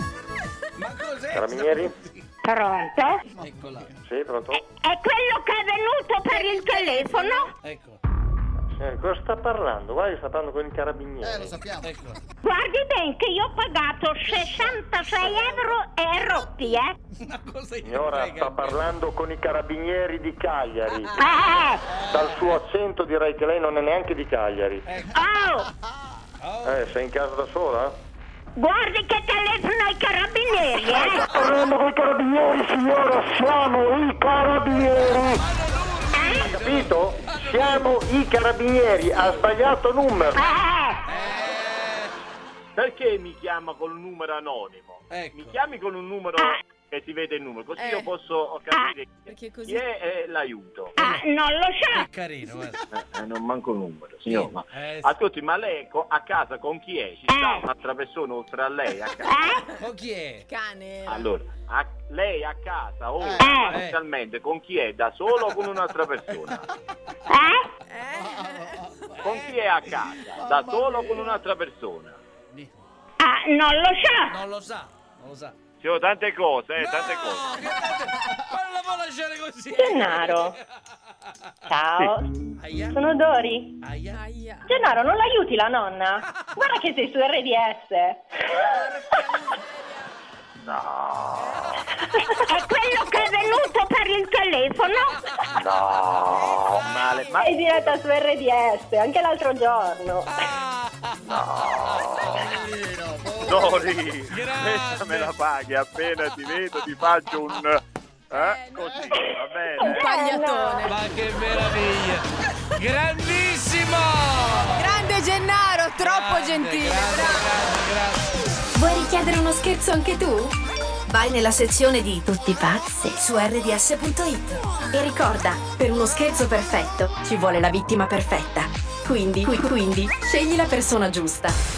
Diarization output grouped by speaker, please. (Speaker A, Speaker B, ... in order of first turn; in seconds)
Speaker A: 0.8-2.2, 3.3-3.9, 7.6-8.0, 11.8-12.2, 14.2-15.7, 17.2-18.9, 21.0-22.6, 24.9-25.1, 26.4-26.8, 35.0-37.9, 41.0-42.1, 45.1-45.6, 51.9-52.8, 54.3-55.1, 59.8-60.4, 63.7-64.0, 69.2-69.9, 72.5-72.8, 74.3-75.5, 76.8-80.6, 82.6-83.0, 83.8-84.2, 100.4-102.6, 104.3-105.3, 106.3-106.9, 110.9-112.2, 112.8-115.0, 116.0-118.3
Speaker B: 1.3-2.0, 4.1-4.7, 8.7-11.6, 17.8-21.2, 22.0-24.9, 26.6-28.0, 31.2-35.4, 36.4-40.6
Speaker C: 2.4-3.2, 4.8-7.5, 12.4-16.9, 21.2-21.8, 25.1-25.7, 28.6-31.2, 36.1-36.4, 40.4-41.0, 51.0-52.0, 57.3-57.6, 59.2-59.7, 63.4-63.7, 67.3-67.7, 73.2-74.3, 92.5-95.1
Speaker D: 3.4-3.9, 11.3-12.1, 63.2-63.6, 102.5-104.0, 108.9-109.2
Speaker E: 6.5-7.4, 47.8-48.1, 49.3-49.8, 60.5-61.3, 67.9-69.0, 84.1-84.7, 88.6-89.7, 91.5-91.7, 108.3-109.2, 109.8-111.0, 114.8-117.6
Speaker F: 42.8-51.0, 53.0-59.4, 61.1-66.7, 69.2-72.2, 75.8-77.6, 90.6-91.6, 95.5-98.0, 101.2-102.5, 103.5-107.8, 108.3-110.1
Speaker G: 79.7-80.6, 81.7-82.3, 82.9-83.8, 84.7-88.3, 97.4-100.3, 109.8-110.9
Speaker H: 118.7-120.6, 121.1-131.6